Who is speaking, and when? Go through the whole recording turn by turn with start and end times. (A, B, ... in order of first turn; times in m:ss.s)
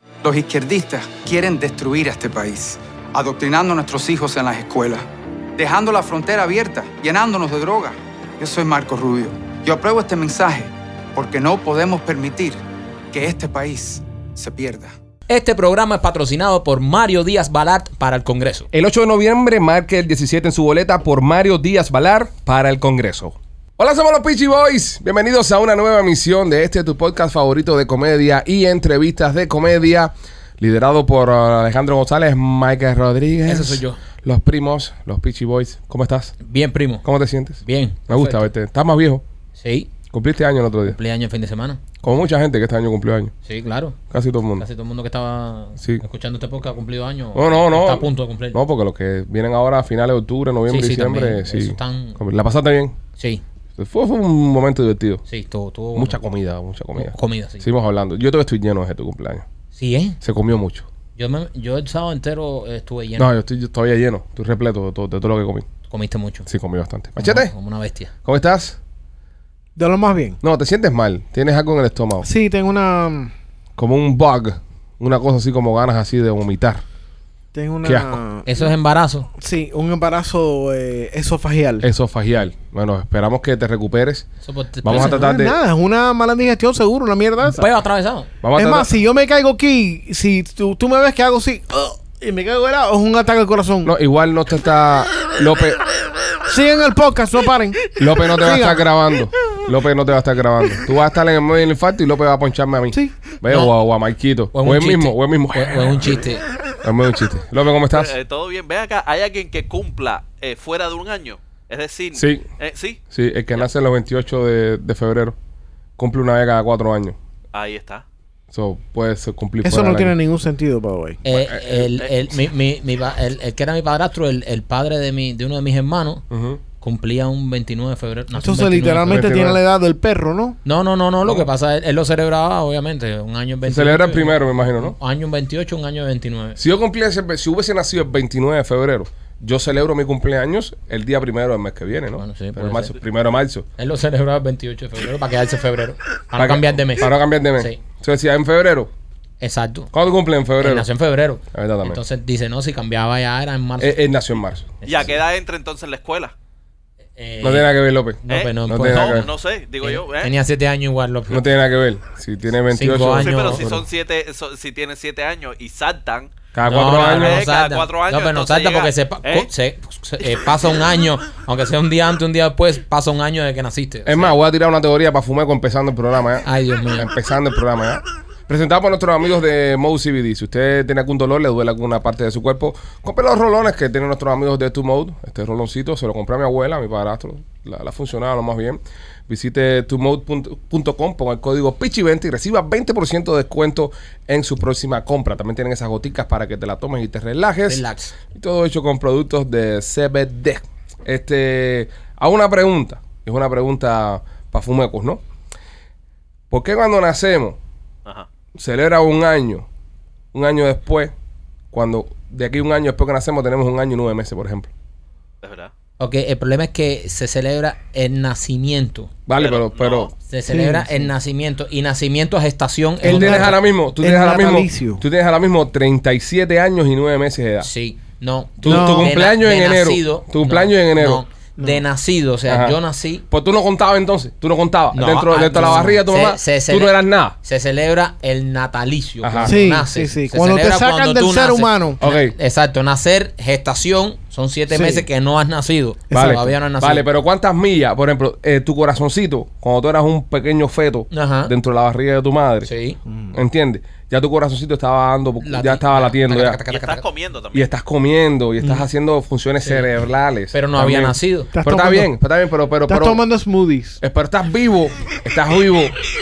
0:00.2-0:05.0 A
0:05.6-0:12.6 A
0:13.1-0:14.9 A
0:15.3-0:18.7 B
0:18.7-0:36.3 C
0:33.4-0:34.0 B
0:36.4-0:37.0 B
0:37.0-0:39.2 C
0:37.6-0:38.5 B
0:39.6-0:39.9 B
0:40.1-0:41.0 C
0:40.9-0:41.8 B
0:42.0-0:43.3 C
0:43.4-0:44.0 B
0:44.1-0:44.6 C
0:44.6-0:48.6 B
0:47.3-0:53.0 C
0:50.7-0:52.2 B
0:53.2-0:53.4 B
0:53.8-0:55.2 C
0:55.3-0:56.2 B
0:55.9-0:59.4 C
0:56.9-0:57.6 B
0:59.7-1:00.2 B
1:00.2-1:00.9 C
1:01.2-1:03.3 B
1:03.2-1:05.7 C
1:05.9-1:06.5 B
1:06.5-1:07.5 C
1:07.2-1:08.1 B
1:08.2-1:08.8 C
1:09.8-1:10.4 D
1:10.4-1:12.3 C
1:12.2-1:13.3 D
1:13.8-1:16.8 C
1:17.5-1:18.5 D
1:17.8-1:18.2 C
1:18.4-1:19.3 B
1:19.4-1:21.8 D
1:21.8-1:24.3 C
1:24.4-1:25.3 B
1:24.8-1:25.6 C
1:24.9-1:27.6 D
1:27.4-1:28.3 B
1:28.4-1:28.9 C
1:28.6-1:33.9 D
1:33.8-1:35.8 C
1:36.5-1:38.8 D
1:38.0-1:46.2 C
1:42.9-1:43.2 D
1:44.5-1:46.4 B
1:46.8-1:48.1 C
1:47.9-1:53.0 E
1:52.1-1:52.4 C
1:53.1-1:55.4 C
1:56.0-1:57.2 C
1:57.5-1:58.0 E
1:58.5-2:00.1 C
1:59.6-2:01.2 D
2:01.2-2:06.2 B
2:01.3-2:02.2 E
2:06.3-2:06.6 C
2:06.8-2:09.4 B
2:08.3-2:10.6 D
2:09.1-2:09.6 C
2:10.6-2:16.6 B
2:13.6-2:15.0 C
2:16.6-2:23.6 C
2:22.2-2:22.9 B
2:23.8-2:27.8 B
2:26.3-2:28.9 C
2:29.4-2:29.9 B
2:29.9-2:30.9 C
2:30.6-2:34.0 B
2:31.5-2:32.0 C
2:33.8-2:34.8 C
2:34.8-2:35.2 B
2:34.8-2:36.3 E
2:37.2-2:37.7 B
2:37.4-2:39.3 C
2:38.2-2:39.3 B
2:38.3-2:40.3 E
2:39.8-2:41.5 B
2:41.3-2:43.8 C
2:42.7-2:43.7 B
2:43.2-2:46.3 E
2:46.5-2:47.4 C
2:46.6-2:54.4 B
2:46.9-2:49.5 E
2:54.0-2:56.4 C
2:56.4-2:57.1 B
2:57.0-3:25.2 C
3:17.7-3:18.1 B
3:26.5-3:27.6 C
3:28.5-3:29.6 C
3:30.3-3:31.1 C
3:31.7-3:34.7 C
3:35.4-3:35.7 E
3:36.0-3:39.1 B
3:39.2-3:40.1 C
3:39.3-3:40.1 E
3:40.3-3:43.6 B
3:40.5-3:41.1 D
3:43.0-3:45.0 D
3:43.0-3:47.7 C
3:47.6-3:53.2 B
3:48.6-3:51.2 C
3:48.6-3:49.1 D
3:52.5-3:52.8 C
3:53.3-3:57.4 C
3:54.9-4:07.0 B
3:59.2-3:59.6 C
3:59.4-4:02.0 D
4:02.0-4:02.4 C
4:04.7-4:05.0 D
4:06.1-4:06.4 D
4:06.1-4:12.7 C
4:11.1-4:11.5 B
4:12.6-4:13.0 B
4:13.3-4:16.6 C
4:15.4-4:17.0 B
4:16.7-4:17.7 E
4:17.5-4:23.2 C
4:20.5-4:21.5 B
4:21.5-4:22.1 D
4:22.9-4:24.0 D
4:24.0-4:26.0 C